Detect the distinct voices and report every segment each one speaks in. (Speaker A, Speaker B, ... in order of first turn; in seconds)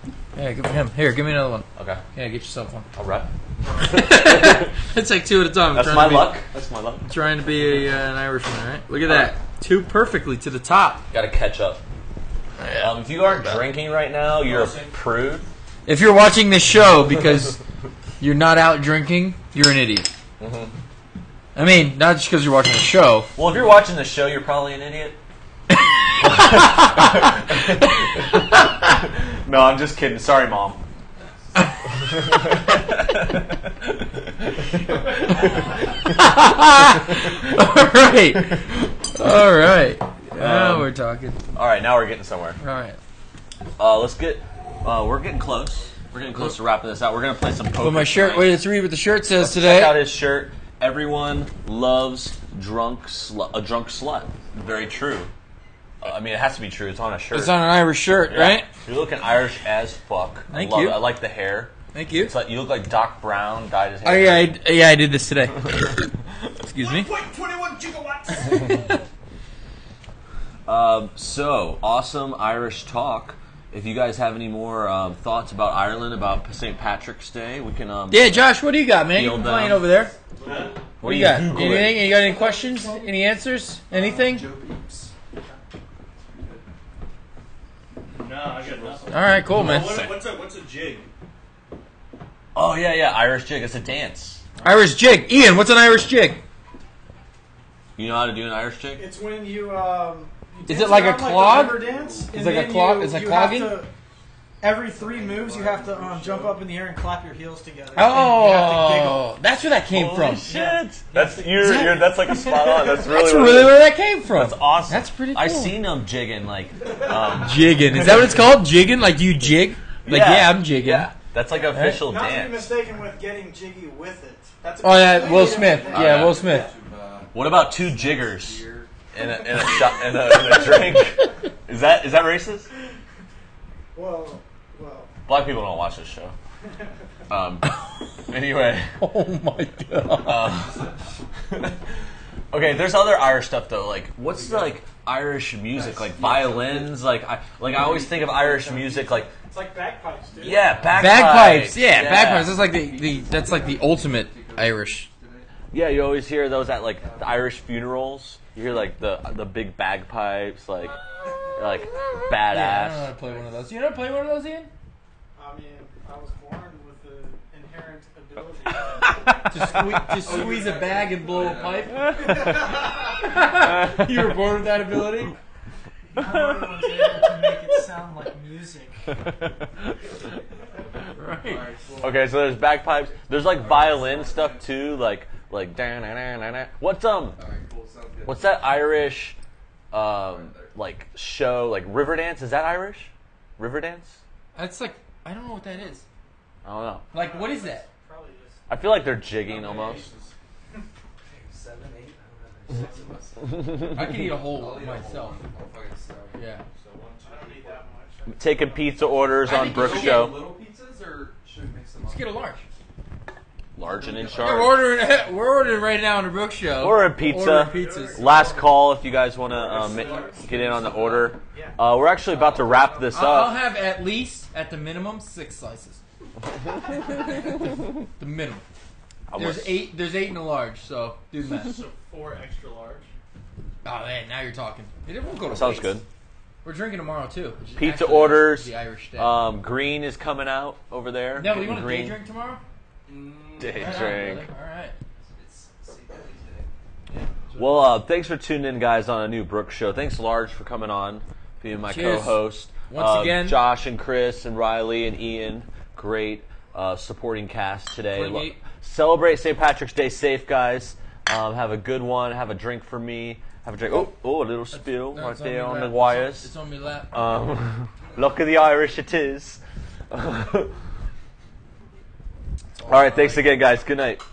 Speaker A: 0.3-2.9, 3.8-6.3, 7.1-11.1, 12.6-13.6, 15.9-17.6, 18.2-20.1, 21.6-23.3, 26.7-27.0, 35.9-41.4, 42.6-43.0, 47.8-50.0, 57.3-58.7, 60.5-61.1, 61.9-62.3, 64.0-67.1, 78.1-80.1, 81.0-84.5, 89.1-90.0, 94.6-96.4, 100.7-103.8, 108.0-110.5, 111.6-112.0, 112.5-115.8, 117.4-121.1, 121.7-122.0, 124.8-126.7, 139.0-140.5, 150.9-155.1, 162.5-164.7, 169.1-175.4, 181.2-181.7, 194.6-196.0, 197.1-197.9, 203.9-205.5, 206.3-206.6, 209.4-210.3, 212.1-212.7, 214.4-218.3, 220.4-221.3, 223.1-226.0, 227.2-227.5, 228.2-228.6, 229.4-231.8, 233.8-236.0, 236.6-239.4, 241.4-242.6, 243.7-244.9, 247.1-247.9, 251.9-253.6, 258.1-258.6, 264.7-267.2, 272.8-273.4
Speaker B: 1.8-2.0, 2.9-4.7, 5.7-7.1, 9.1-9.3, 11.1-11.8, 12.8-15.5, 20.4-20.7, 23.4-25.2, 26.2-30.8, 32.3-35.5, 40.3-40.9, 41.5-42.6, 43.8-48.6, 49.4-55.3, 56.0-57.7, 58.3-64.5, 70.7-78.4, 79.1-79.9, 81.0-82.1, 89.5-90.2, 92.5-94.4, 98.0-99.1, 109.9-118.3, 120.0-122.8, 125.9-126.4, 127.3-132.7, 135.3-136.3, 137.3-137.7, 138.3-139.0, 140.2-140.8, 141.5-141.8, 142.5-149.3, 150.4-152.5, 155.7-161.0, 161.6-163.1, 182.0-187.4, 188.3-189.4, 189.9-194.2, 196.7-197.1, 198.7-200.1, 203.6-204.3, 208.3-210.4, 213.7-214.8, 216.8-223.6, 229.3-229.9, 235.5-236.1, 237.8-242.2, 243.6-244.5, 247.6-266.5, 267.1-270.7, 272.9-274.2
Speaker C: 14.5-14.9, 66.8-68.9, 80.4-80.8, 88.1-91.1, 199.4-200.3, 206.8-207.8, 220.0-220.3, 231.5-233.1
Speaker D: 79.8-80.8, 83.9-85.1, 86.2-86.7, 88.4-89.2, 101.5-102.3, 104.9-106.6, 125.2-128.9, 129.6-130.1, 140.7-140.9, 144.3-144.8, 145.7-147.0, 150.7-151.0, 152.2-155.5, 157.0-157.5, 170.1-172.5, 181.4-182.3, 183.3-184.7, 187.4-188.5, 190.0-190.8, 201.2-203.5, 204.4-206.4, 209.5-212.3, 213.8-214.8, 219.5-220.6, 243.1-244.2, 245.3-246.7
Speaker E: 99.0-103.9, 104.6-109.3, 110.4-112.5, 121.6-126.3, 133.9-135.1, 147.8-150.9, 165.4-170.4, 172.2-172.9, 176.1-179.1, 197.1-198.6, 202.7-203.2, 207.2-209.3, 217.7-218.7, 221.5-221.8